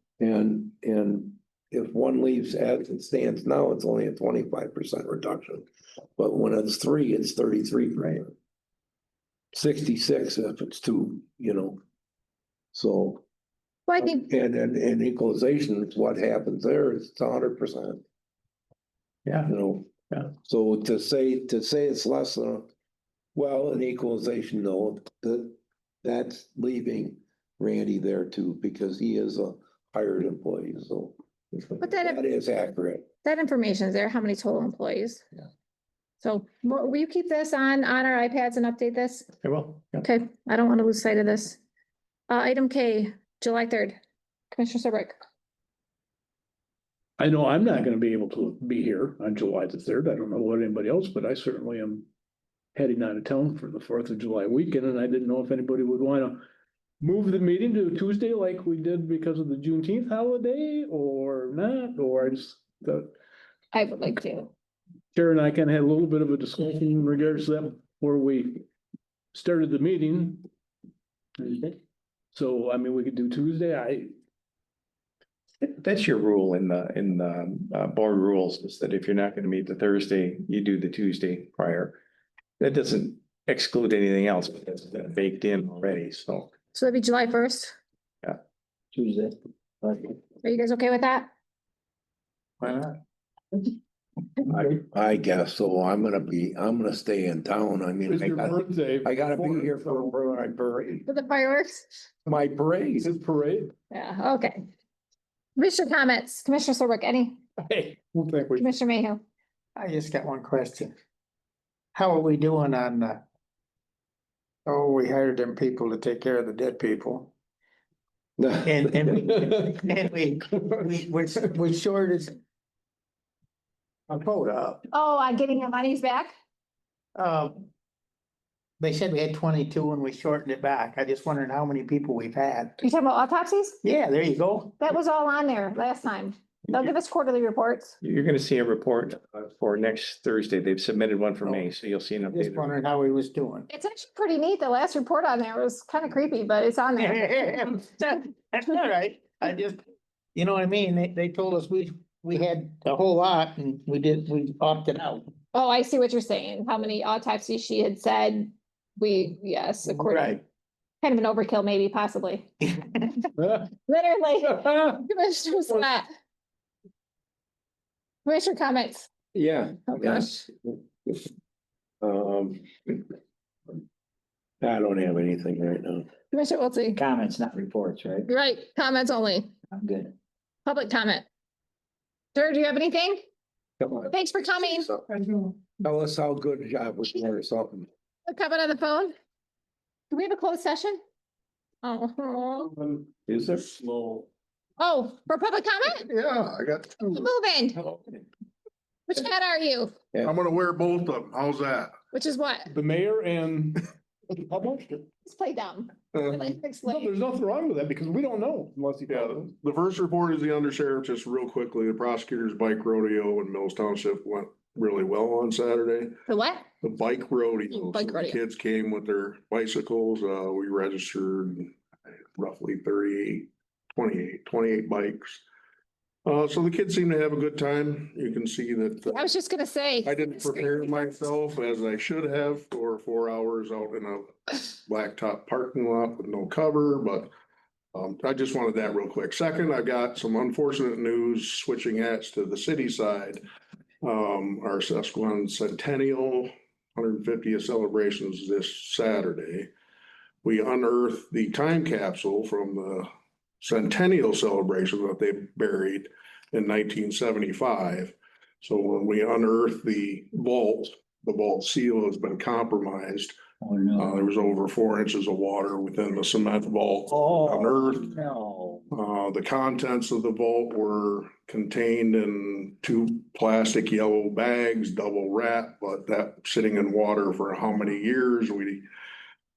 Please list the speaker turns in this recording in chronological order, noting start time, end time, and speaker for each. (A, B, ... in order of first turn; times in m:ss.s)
0:00.2-0:05.6 A
0:06.2-0:08.3 A
0:09.5-0:11.8 A
0:12.7-0:13.2 A
0:13.9-0:14.2 B
0:14.0-0:18.0 A
0:19.4-0:22.7 A
0:23.3-0:33.0 A
0:31.8-0:32.2 B
0:33.2-0:35.2 B
0:36.2-0:39.3 B
0:39.4-0:40.0 C
0:40.0-0:41.6 B
0:42.3-0:44.0 B
0:44.5-0:45.2 B
0:47.2-0:52.1 D
0:52.7-0:56.4 D
0:57.0-1:03.1 D
1:03.7-1:04.5 B
1:05.1-1:08.6 D
1:09.3-1:10.5 D
1:11.4-1:11.8 D
1:12.3-1:14.1 D
1:15.6-1:22.0 C
1:22.6-1:26.5 C
1:26.7-1:27.7 B
1:28.9-1:30.1 C
1:30.4-1:31.3 B
1:32.6-1:32.9 E
1:34.5-1:41.1 A
1:38.1-1:39.8 D
1:41.1-1:41.9 B
1:42.2-1:43.1 A
1:43.0-1:43.7 D
1:43.9-1:44.6 B
1:45.6-1:47.4 B
1:47.6-1:48.7 D
1:48.6-1:49.2 B
1:49.8-1:50.9 E
1:51.9-1:53.2 E
1:54.6-1:57.3 E
1:58.4-1:59.2 A
1:58.6-2:02.3 E
2:04.1-2:04.8 E
2:04.9-2:06.3 B
2:07.2-2:07.7 E
2:08.8-2:12.8 E
2:12.8-2:13.8 B
2:13.8-2:14.8 E
2:14.8-2:18.0 B
2:18.0-2:22.6 C
2:22.3-2:23.7 E
2:23.7-2:27.6 B
2:27.0-2:29.8 E
2:30.3-2:35.3 E
2:35.5-2:40.4 B
2:39.9-2:40.4 E
2:41.0-2:42.5 B
2:42.6-2:43.1 E
2:43.4-2:43.7 D
2:43.8-2:46.0 B
2:44.6-2:44.9 D
2:48.2-2:49.1 B
2:49.3-2:51.3 A
2:49.9-2:50.4 B
2:52.0-2:52.7 A
2:54.6-2:56.1 A
2:56.3-2:57.0 B
2:57.0-2:58.2 C
2:58.3-2:59.5 B
2:59.7-3:00.1 C
3:00.6-3:01.2 B
3:02.3-3:03.2 B
3:03.8-3:07.9 A
3:04.1-3:04.9 B
3:08.3-3:09.1 B
3:10.1-3:11.0 B
3:11.8-3:12.7 B
3:13.3-3:13.7 A
3:13.8-3:14.2 F
3:14.8-3:16.0 B
3:15.8-3:17.3 F
3:17.1-3:17.8 B
3:19.1-3:19.9 B
3:20.2-3:21.9 F
3:22.1-3:22.7 B
3:22.7-3:25.1 D
3:25.2-3:27.1 B
3:26.1-3:26.6 F
3:26.8-3:29.5 D
3:29.1-3:36.2 F
3:36.3-3:36.6 B
3:36.8-3:41.7 F
3:37.7-3:38.4 B
3:42.4-3:45.4 F
3:46.2-3:49.3 F
3:49.0-3:51.2 B
3:50.0-3:57.3 F
3:57.9-4:03.4 F
4:04.0-4:09.7 F
4:10.4-4:13.1 F
4:13.6-4:23.4 F
4:23.6-4:24.3 C
4:23.9-4:28.1 F
4:27.1-4:28.8 C
4:28.9-4:38.8 F